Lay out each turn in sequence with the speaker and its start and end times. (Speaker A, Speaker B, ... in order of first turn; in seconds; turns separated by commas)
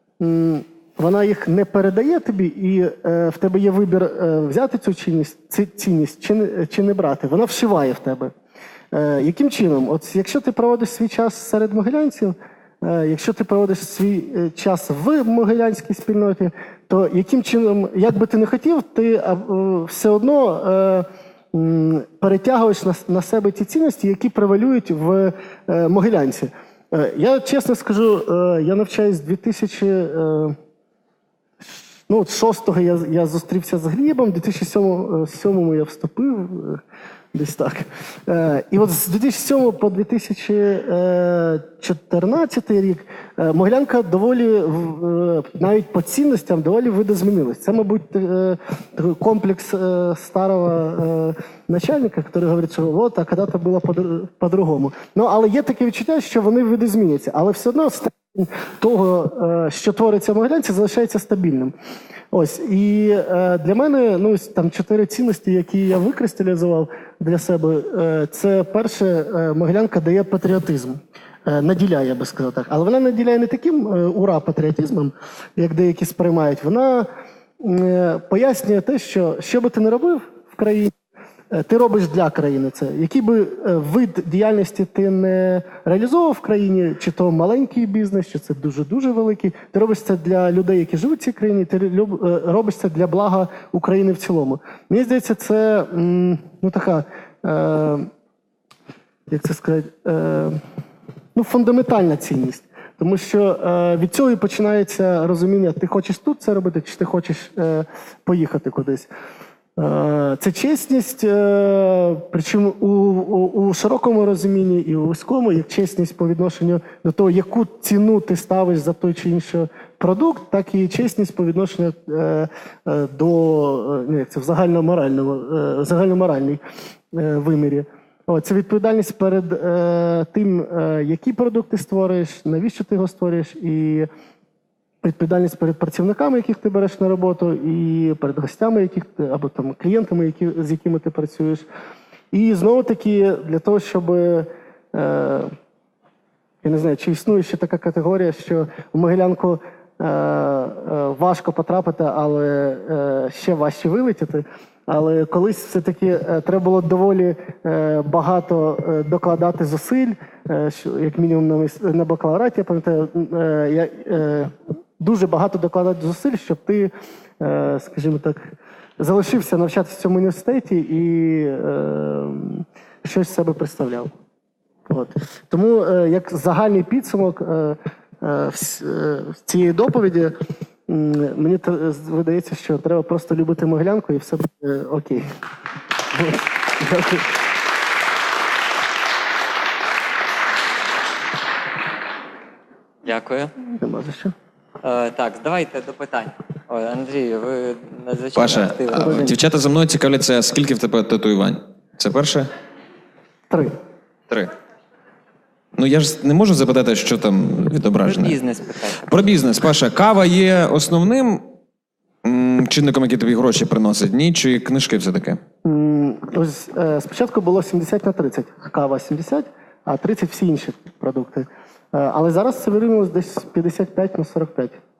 Speaker A: 0.2-8.3, Speaker A: 8.9-30.6, Speaker A: 32.1-36.8, Speaker A: 37.3-61.7, Speaker A: 62.3-77.1, Speaker A: 77.6-80.9, Speaker A: 81.5-98.1, Speaker A: 99.3-100.6, Speaker A: 101.3-109.1, Speaker A: 109.8-126.6, Speaker A: 127.1-134.1, Speaker A: 135.0-141.7, Speaker A: 142.3-145.5, Speaker A: 146.6-174.1, Speaker A: 174.9-180.3, Speaker A: 180.9-185.3, Speaker A: 186.1-187.4, Speaker B: 193.0-193.5, Speaker A: 193.6-194.3, Speaker B: 194.8-199.1, Speaker C: 198.3-202.5, Speaker A: 199.0-199.4, Speaker C: 205.8-208.4, Speaker B: 208.0-209.2, Speaker C: 209.0-211.5, Speaker C: 212.2-215.4, Speaker A: 215.6-224.8